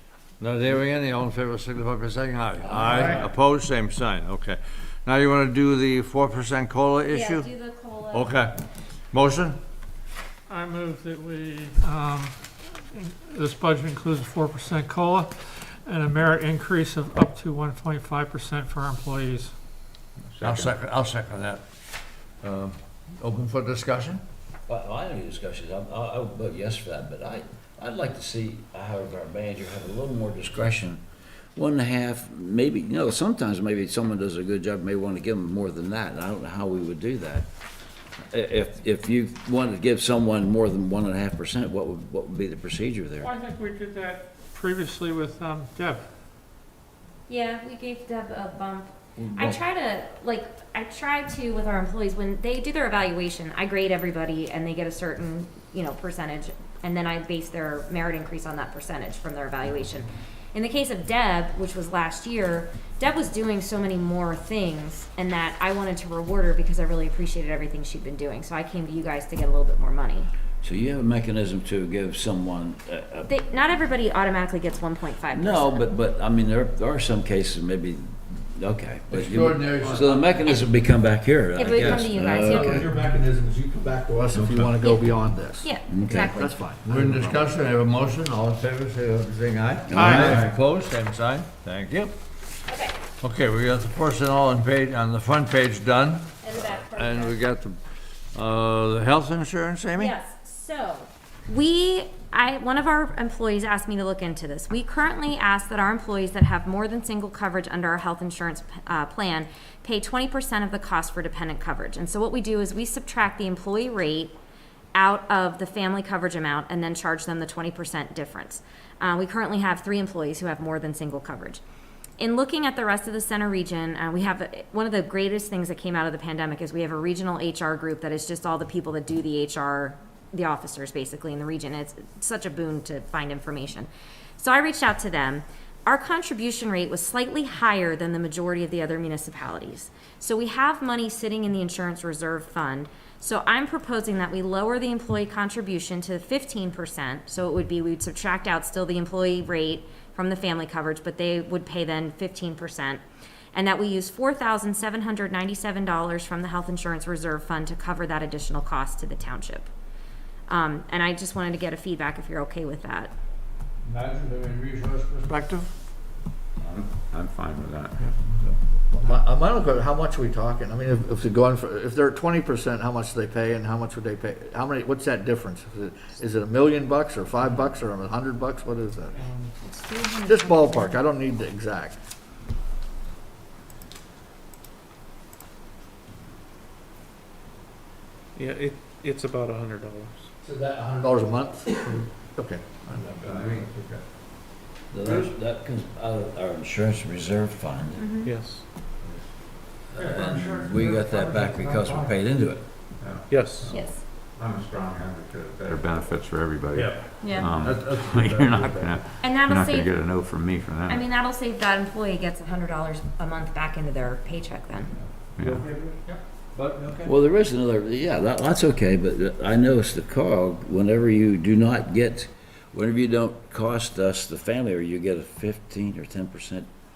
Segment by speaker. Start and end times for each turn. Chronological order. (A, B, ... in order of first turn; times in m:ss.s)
0:00.4-0:07.5 A
0:02.6-0:03.3 B
0:07.1-0:08.4 C
0:08.1-0:08.5 A
0:09.1-0:09.6 A
0:10.5-0:19.5 D
0:20.2-0:20.7 E
0:20.4-0:21.6 A
0:22.4-0:24.2 A
0:24.7-0:31.0 F
0:31.6-0:37.5 F
0:38.3-0:43.3 F
0:43.2-0:46.0 D
0:47.3-1:10.3 C
0:49.2-0:49.6 F
1:10.6-1:13.3 F
1:13.3-1:15.9 C
1:15.3-1:22.9 F
1:19.1-1:20.1 A
1:21.5-1:22.9 C
1:21.8-1:27.5 B
1:24.3-1:24.7 F
1:25.6-1:26.6 C
1:25.9-1:26.4 F
1:26.8-1:32.1 A
1:29.9-1:30.4 F
1:29.9-1:30.4 D
1:30.0-1:30.5 B
1:32.7-1:33.0 C
1:33.2-1:37.8 A
1:36.4-1:37.4 C
1:38.3-1:40.1 A
1:40.0-1:54.4 C
1:55.0-2:01.6 C
2:02.2-2:33.0 C
2:33.5-2:39.7 C
2:40.5-2:43.1 C
2:43.8-2:45.7 A
2:46.6-2:48.0 E
2:48.9-2:59.2 B
2:59.2-2:59.5 G
2:59.6-3:01.0 C
3:00.3-3:02.0 B
3:08.6-3:10.1 G
3:10.4-3:12.9 B
3:12.9-3:14.0 A
3:13.2-3:13.7 E
3:14.9-3:18.1 F
3:18.0-3:18.3 C
3:18.2-3:18.6 G
3:20.0-3:22.6 F
3:20.0-3:22.1 D
3:23.0-3:31.0 E
3:23.3-3:23.7 G
3:23.7-3:24.0 C
3:26.8-3:29.0 A
3:27.2-3:27.5 C
3:29.2-3:29.9 C
3:30.9-3:34.9 C
3:35.4-3:35.6 E
3:35.4-3:36.0 A
3:36.6-3:37.1 A
3:37.0-3:46.7 F